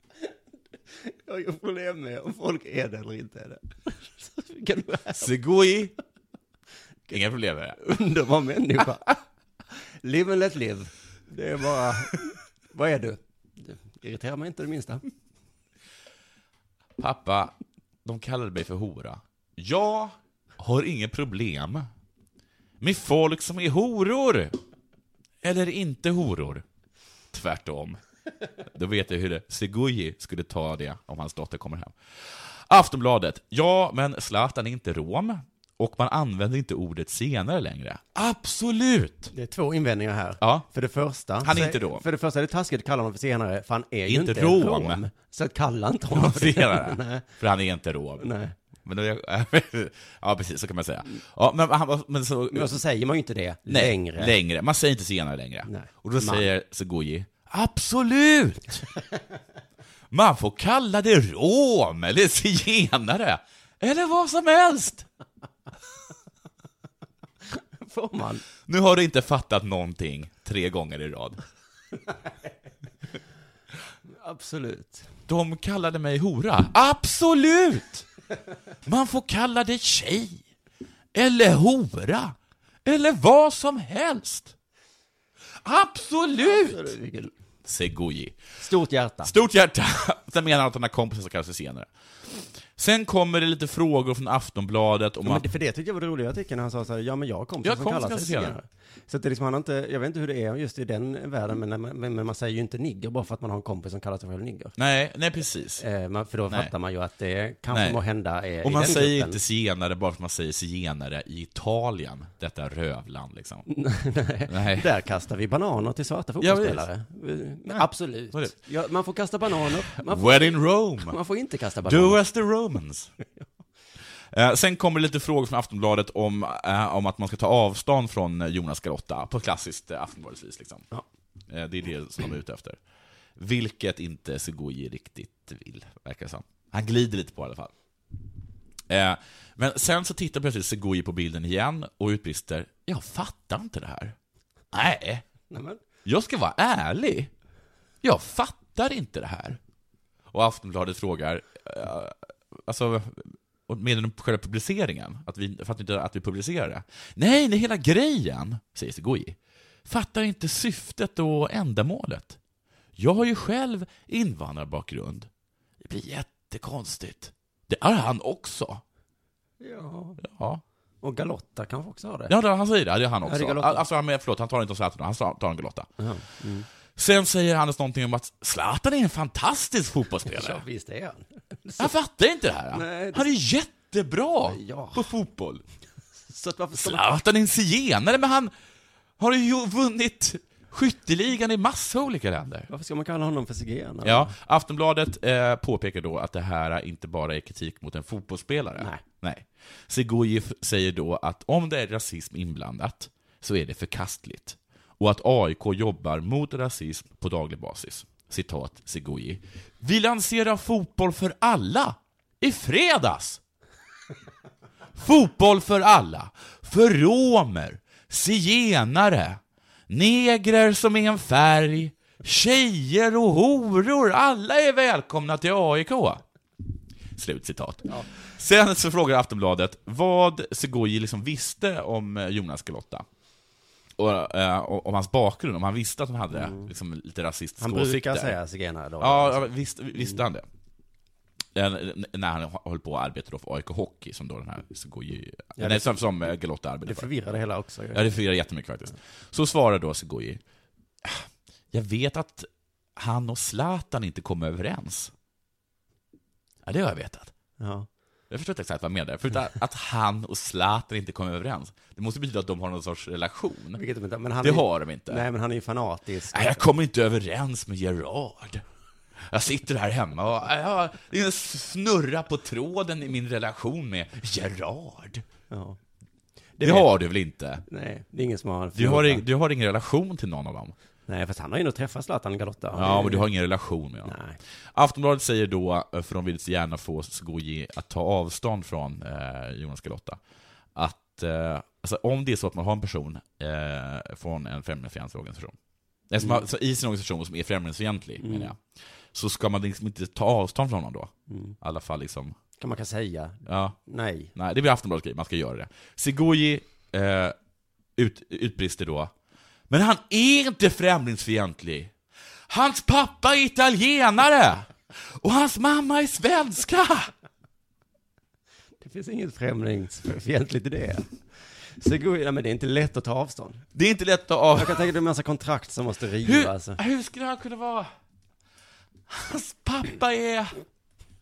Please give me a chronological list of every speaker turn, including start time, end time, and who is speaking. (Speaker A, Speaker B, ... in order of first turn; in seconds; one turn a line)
Speaker A: 1.0-5.3
Speaker B: 5.2-5.9
Speaker B: 7.1-7.8
Speaker A: 7.8-9.2
Speaker A: 10.0-15.0
Speaker B: 17.0-21.9
Speaker B: 22.8-24.6
Speaker B: 25.4-26.6
Speaker B: 27.3-28.0
Speaker B: 28.7-39.3
Speaker A: 39.3-47.3
Speaker B: 40.4-40.7
Speaker B: 41.4-42.0
Speaker B: 44.1-45.0
Speaker B: 46.1-48.3
Speaker A: 48.2-48.5
Speaker B: 48.8-52.8
Speaker A: 52.5-54.3
Speaker B: 53.7-58.9
Speaker A: 55.6-56.5
Speaker B: 60.1-65.1
Speaker A: 67.8-68.4
Speaker B: 68.7-71.4
Speaker A: 74.1-75.1
Speaker B: 75.3-78.0
Speaker B: 78.8-80.4
Speaker B: 81.1-84.5
Speaker B: 85.6-86.9
Speaker A: 86.4-87.3
Speaker B: 87.6-88.4
Speaker A: 88.6-89.3
Speaker B: 89.2-91.9
Speaker B: 92.8-95.4
Speaker A: 95.2-104.8
Speaker B: 97.6-98.6
Speaker B: 104.8-105.8
Speaker A: 105.8-109.4
Speaker B: 107.7-108.0
Speaker B: 108.6-113.7
Speaker A: 113.7-122.2
Speaker B: 114.5-114.9
Speaker B: 116.4-116.9
Speaker B: 117.7-118.5
Speaker B: 120.0-121.2
Speaker B: 121.8-123.1
Speaker B: 124.3-130.8
Speaker B: 131.5-132.8
Speaker B: 133.4-137.7
Speaker B: 138.9-144.2
Speaker B: 144.7-145.2
Speaker A: 145.5-145.8
Speaker B: 146.0-147.3
Speaker B: 148.0-149.6
Speaker B: 150.3-162.4
Speaker B: 163.0-165.3
Speaker B: 165.8-168.8
Speaker A: 169.6-170.2
Speaker B: 170.2-170.6
Speaker A: 171.0-172.3
Speaker B: 172.3-175.9
Speaker A: 173.2-173.8
Speaker A: 176.0-176.7
Speaker B: 176.9-180.6
Speaker A: 180.2-181.9
Speaker B: 181.8-185.6
Speaker A: 182.7-183.2
Speaker A: 184.4-185.1
Speaker A: 186.3-187.2
Speaker B: 186.7-188.5
Speaker B: 189.2-192.7
Speaker A: 192.7-194.3
Speaker B: 194.0-213.4
Speaker B: 214.9-226.2
Speaker B: 227.1-233.1
Speaker B: 234.0-238.3
Speaker A: 236.3-236.7
Speaker A: 237.6-239.5
Speaker B: 239.0-240.4
Speaker B: 241.5-247.1
Speaker A: 245.6-246.0
Speaker A: 246.8-248.1
Speaker B: 247.9-250.4
Speaker B: 251.0-255.1
Speaker B: 256.6-257.3
Speaker A: 257.6-257.9
Speaker B: 258.3-263.8
Speaker A: 263.7-266.6
Speaker B: 264.4-265.2
Speaker B: 266.3-268.6
Speaker B: 269.2-275.2
Speaker A: 275.5-275.8
Speaker A: 276.6-276.9
Speaker B: 276.6-277.6
Speaker A: 277.7-279.2
Speaker B: 278.7-280.7
Speaker A: 281.1-283.3
Speaker B: 282.7-284.1
Speaker A: 284.0-284.4
Speaker B: 284.7-290.2
Speaker B: 290.7-295.5
Speaker B: 296.1-298.6
Speaker A: 298.2-298.5
Speaker B: 299.1-302.4
Speaker A: 301.3-301.6
Speaker A: 302.6-304.3
Speaker B: 303.4-303.8
Speaker B: 304.3-307.4
Speaker B: 308.0-309.1
Speaker B: 309.7-311.9
Speaker B: 312.5-317.1
Speaker A: 318.8-321.1
Speaker A: 321.8-323.6
Speaker B: 323.7-324.9
Speaker A: 324.6-326.8
Speaker B: 326.2-327.9
Speaker B: 329.1-330.6